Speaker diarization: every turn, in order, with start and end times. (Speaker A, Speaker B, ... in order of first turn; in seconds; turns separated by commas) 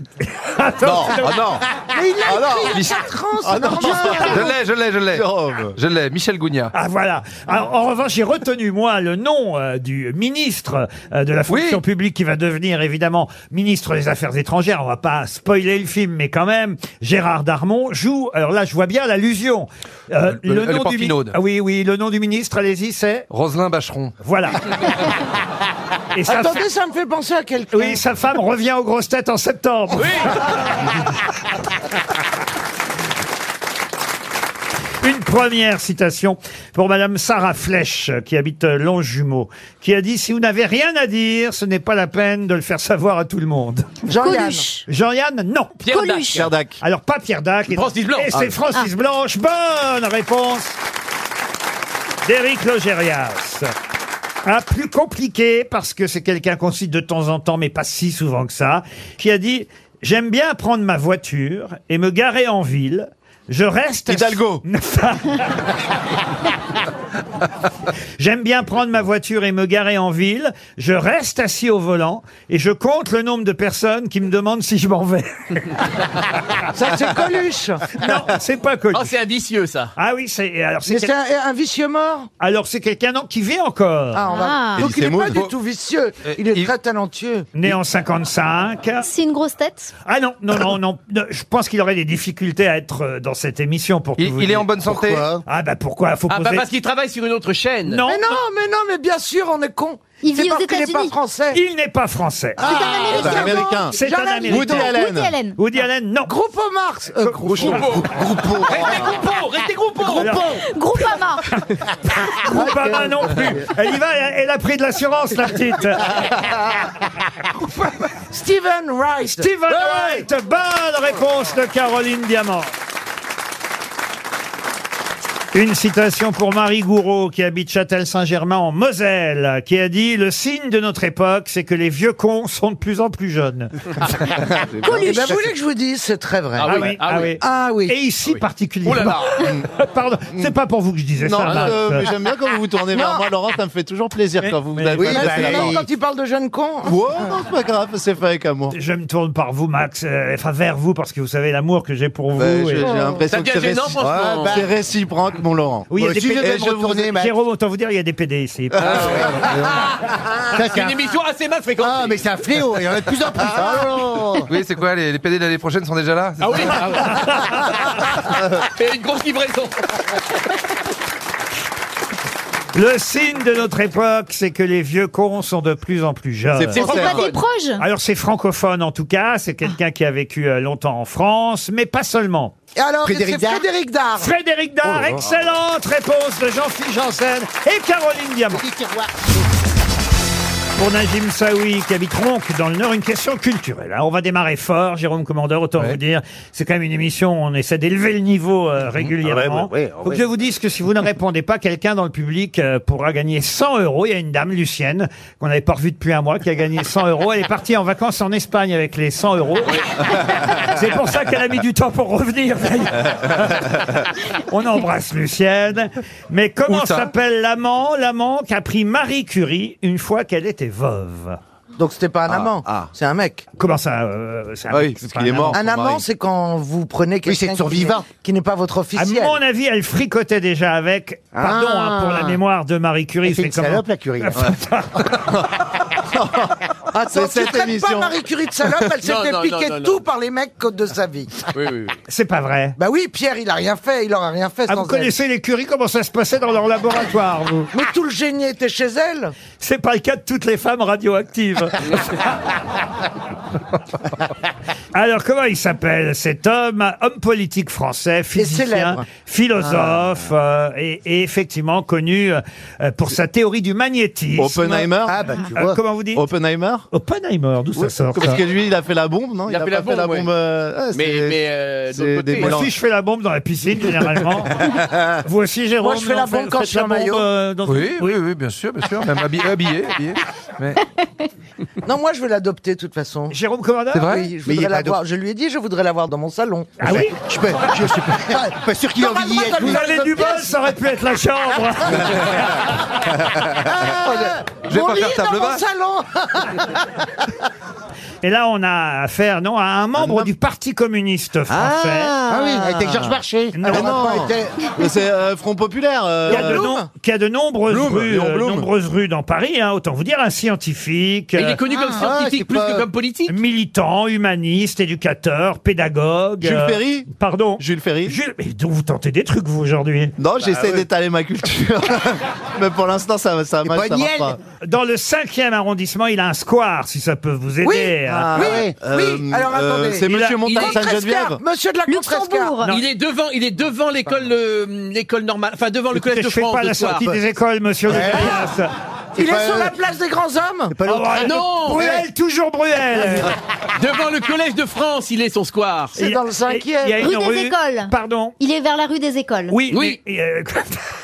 Speaker A: 0.4-1.6, Speaker B: 0.8-1.7, Speaker C: 1.9-4.5, Speaker B: 2.2-2.9, Speaker D: 2.7-3.0, Speaker B: 3.4-4.5, Speaker D: 4.0-6.7, Speaker B: 5.1-5.8, Speaker A: 6.7-23.3, Speaker D: 11.5-11.8, Speaker D: 20.3-21.4, Speaker D: 23.3-24.1, Speaker A: 24.2-24.9, Speaker A: 26.1-26.6, Speaker C: 26.3-28.0, Speaker A: 27.7-31.0, Speaker E: 30.0-30.4, Speaker A: 35.0-44.0, Speaker C: 44.1-44.7, Speaker F: 44.2-44.8, Speaker A: 44.9-45.9, Speaker E: 45.8-46.5, Speaker F: 45.9-46.5, Speaker B: 46.3-46.8, Speaker A: 46.8-50.8, Speaker E: 47.7-48.6, Speaker A: 52.2-53.7, Speaker A: 54.4-65.6, Speaker B: 64.1-64.6, Speaker A: 68.2-75.7, Speaker C: 76.7-77.9, Speaker A: 78.0-79.1, Speaker E: 78.9-79.9, Speaker A: 80.0-81.1, Speaker C: 80.8-82.3, Speaker A: 82.4-84.3, Speaker C: 84.1-87.5, Speaker F: 84.3-84.9, Speaker B: 84.8-85.4, Speaker D: 86.2-86.7, Speaker A: 87.5-89.1, Speaker F: 89.0-89.9, Speaker A: 90.0-94.7, Speaker D: 94.2-95.3, Speaker G: 94.8-95.4, Speaker A: 95.5-96.6, Speaker E: 96.3-98.0, Speaker A: 97.8-98.4, Speaker C: 98.1-101.6, Speaker F: 100.2-101.1, Speaker A: 101.5-102.7, Speaker C: 102.6-105.0, Speaker F: 102.6-105.5, Speaker G: 102.6-103.5, Speaker B: 103.1-103.9, Speaker A: 103.9-104.9, Speaker B: 104.5-105.3, Speaker A: 105.6-106.3, Speaker C: 106.2-108.0, Speaker A: 107.2-107.8, Speaker E: 107.5-110.3, Speaker G: 107.7-109.2, Speaker A: 110.1-110.6, Speaker C: 110.2-110.5, Speaker F: 110.5-111.4, Speaker A: 111.5-116.2, Speaker G: 112.5-113.5, Speaker C: 118.3-120.2, Speaker A: 119.3-122.7, Speaker A: 125.5-133.7, Speaker B: 134.3-135.0, Speaker F: 134.8-135.4, Speaker C: 134.9-138.0, Speaker E: 136.6-137.3, Speaker A: 136.6-142.1, Speaker E: 138.8-139.6, Speaker B: 141.2-145.8, Speaker E: 141.5-141.8, Speaker C: 142.9-143.3, Speaker A: 144.4-145.2, Speaker G: 145.0-145.9, Speaker C: 145.0-147.3, Speaker B: 146.8-148.8, Speaker A: 148.7-152.9, Speaker B: 152.3-155.9, Speaker E: 153.3-154.6, Speaker G: 154.0-154.7, Speaker A: 155.9-159.2, Speaker G: 155.9-157.4, Speaker G: 158.8-159.7, Speaker E: 158.8-159.2, Speaker D: 159.4-159.8, Speaker G: 160.4-161.0, Speaker E: 160.5-162.3, Speaker G: 161.8-164.5, Speaker D: 164.5-166.8, Speaker E: 166.4-167.9, Speaker A: 166.9-167.7, Speaker E: 168.6-169.9, Speaker A: 172.7-176.9, Speaker B: 176.5-177.3, Speaker F: 176.8-177.8, Speaker E: 176.8-177.4, Speaker A: 177.8-182.5, Speaker C: 182.8-184.3, Speaker G: 183.0-183.7, Speaker A: 184.2-188.6, Speaker G: 184.8-185.2, Speaker G: 188.5-189.4, Speaker A: 190.8-221.4, Speaker G: 199.2-200.2, Speaker D: 216.7-217.1, Speaker C: 221.8-223.4, Speaker B: 222.3-222.9, Speaker A: 223.6-225.6, Speaker B: 224.7-226.0, Speaker C: 225.5-229.4, Speaker G: 227.2-228.1, Speaker A: 228.9-235.2, Speaker G: 231.3-232.4, Speaker G: 233.2-234.5, Speaker B: 235.3-238.2, Speaker C: 236.9-241.5, Speaker E: 239.0-240.0, Speaker E: 241.5-241.9, Speaker A: 242.1-242.8, Speaker C: 242.8-245.1, Speaker A: 244.7-247.7, Speaker C: 247.7-249.3, Speaker A: 249.6-252.2, Speaker A: 254.9-264.9, Speaker C: 258.4-259.0, Speaker G: 259.7-259.9, Speaker B: 264.4-265.1, Speaker G: 265.1-265.8, Speaker A: 265.5-266.3, Speaker B: 266.1-266.8, Speaker A: 266.9-268.4, Speaker B: 267.8-272.7, Speaker E: 269.5-270.3, Speaker E: 270.9-272.6, Speaker A: 272.4-278.2, Speaker C: 275.8-277.2, Speaker D: 277.6-280.8, Speaker C: 281.8-283.4, Speaker A: 283.3-284.1, Speaker D: 283.9-284.3, Speaker C: 284.0-286.9, Speaker G: 284.4-285.0, Speaker A: 286.8-287.2, Speaker G: 286.8-289.9, Speaker C: 287.7-290.5, Speaker A: 289.5-292.7, Speaker C: 293.5-296.8, Speaker D: 294.7-295.6, Speaker A: 298.2-302.3, Speaker B: 300.0-300.3, Speaker G: 301.5-304.6, Speaker C: 302.3-302.7, Speaker A: 303.5-303.9, Speaker B: 303.6-306.6, Speaker C: 306.3-306.9, Speaker A: 306.3-311.6, Speaker B: 307.7-308.7, Speaker E: 311.4-313.3, Speaker G: 311.8-312.9, Speaker A: 313.3-320.1, Speaker B: 316.4-318.2, Speaker B: 320.2-324.4, Speaker G: 320.5-320.8, Speaker G: 323.6-324.4, Speaker A: 324.6-328.5, Speaker C: 327.6-332.6, Speaker B: 328.2-331.4, Speaker G: 328.3-328.8, Speaker A: 330.1-330.4, Speaker E: 330.5-330.8, Speaker F: 331.9-332.7, Speaker E: 332.6-337.1, Speaker A: 335.9-338.7, Speaker G: 337.9-338.4, Speaker C: 339.1-340.8, Speaker G: 339.2-339.7, Speaker G: 340.7-342.0, Speaker A: 340.8-343.3, Speaker E: 341.2-341.8, Speaker E: 343.8-345.9, Speaker C: 345.9-347.0, Speaker A: 346.0-348.3, Speaker F: 347.0-349.6, Speaker A: 349.5-350.8, Speaker E: 349.7-350.0